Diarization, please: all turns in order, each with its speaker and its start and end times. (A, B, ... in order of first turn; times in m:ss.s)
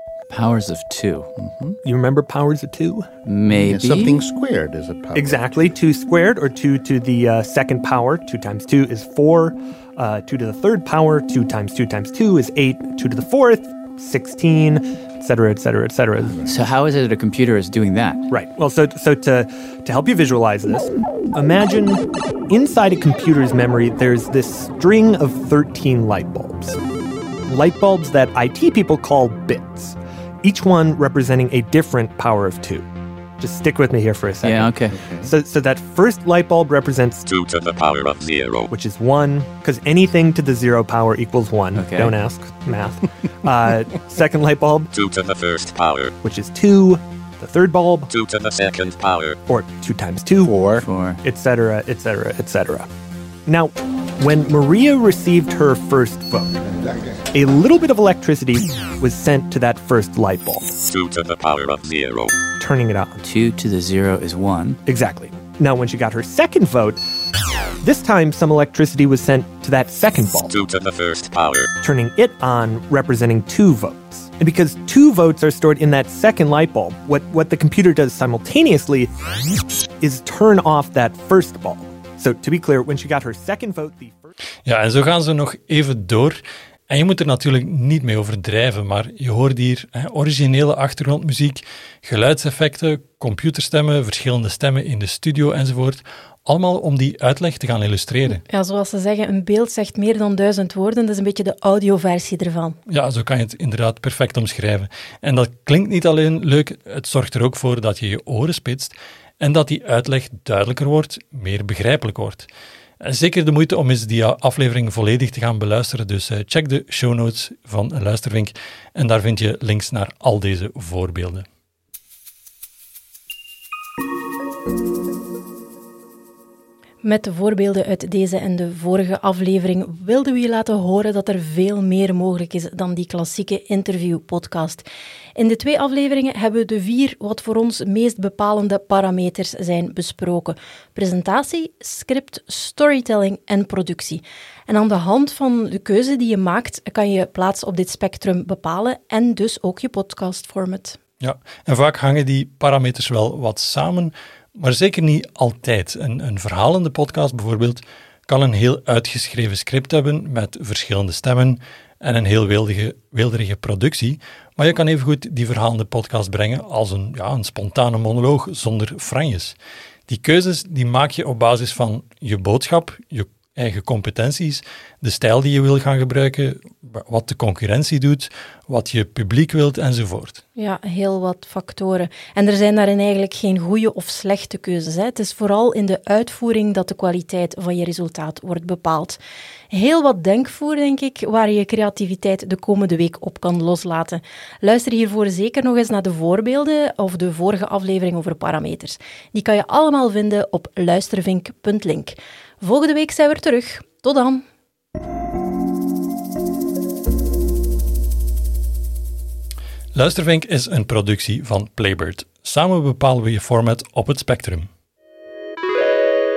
0:00.3-0:01.8 A
0:01.8-0:03.1 B
0:03.2-0:04.2 A
0:03.7-0:05.6 C
0:05.1-0:16.4 B
0:16.2-0:18.2 A
0:18.3-0:26.8 B
0:27.5-0:32.9 B
0:33.4-0:37.2 B
0:34.4-0:35.3 A
0:35.0-0:35.2 C
0:37.2-0:38.7 D
0:38.7-0:44.9 B
0:41.8-0:42.2 A
0:44.9-0:46.1 D
0:46.2-0:48.1 B
0:48.1-0:49.4 D
0:49.5-0:50.6 B
0:50.4-0:51.2 A
0:51.2-0:52.9 B
0:53.4-0:56.6 B
0:57.3-1:00.8 B
1:00.8-1:02.4 D
1:02.6-1:03.2 B
1:03.2-1:04.8 A
1:04.9-1:07.0 B
1:07.8-1:10.6 B
1:10.5-1:11.7 D
1:11.8-1:19.1 B
1:20.0-1:24.4 B
1:24.6-1:38.4 E
1:38.4-1:42.8 F
1:42.9-1:52.5 E
1:53.0-2:01.4 E
2:07.0-2:14.8 F
2:15.4-2:31.0 F
2:31.2-2:49.6 E
2:50.1-3:00.4 E
3:00.6-3:09.2 F
3:09.7-3:24.4 F
3:29.9-3:34.7 E